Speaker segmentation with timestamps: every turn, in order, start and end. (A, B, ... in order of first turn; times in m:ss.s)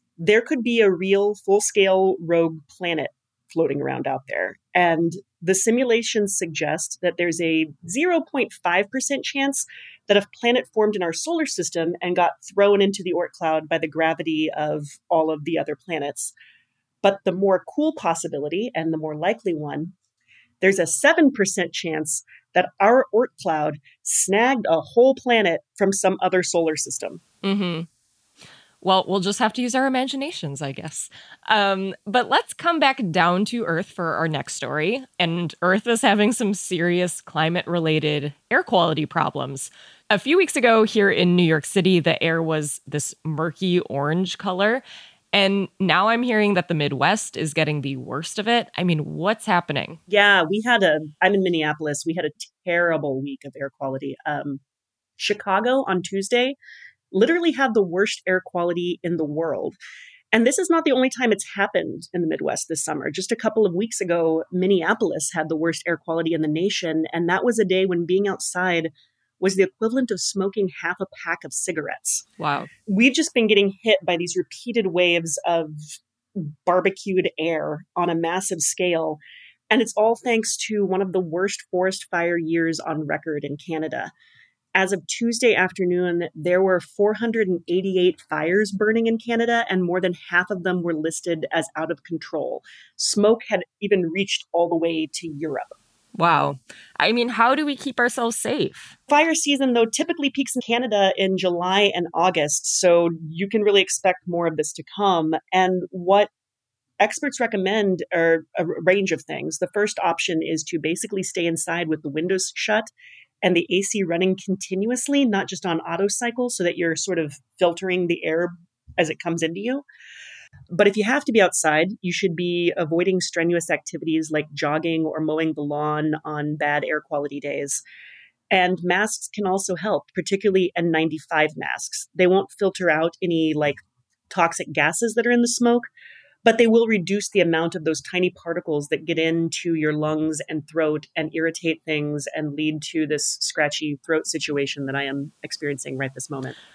0:00.2-0:16.3 A
0:17.0-0:19.9 A
0:20.6-0:27.2 A
0:27.4-0:27.9 B
0:28.8-0:50.0 B
0:50.1-0:54.6 A
0:55.2-0:56.6 A
0:57.1-0:59.8 A
1:00.3-1:12.3 A
1:12.4-1:12.7 B
1:12.9-1:19.2 A
1:19.7-1:24.1 A
1:24.7-1:35.7 A
1:36.1-1:38.9 B
1:39.1-1:46.3 A
1:47.0-1:52.9 A
1:53.4-1:59.8 A
2:00.7-2:07.8 A
2:08.5-2:15.9 A
2:16.4-2:26.6 A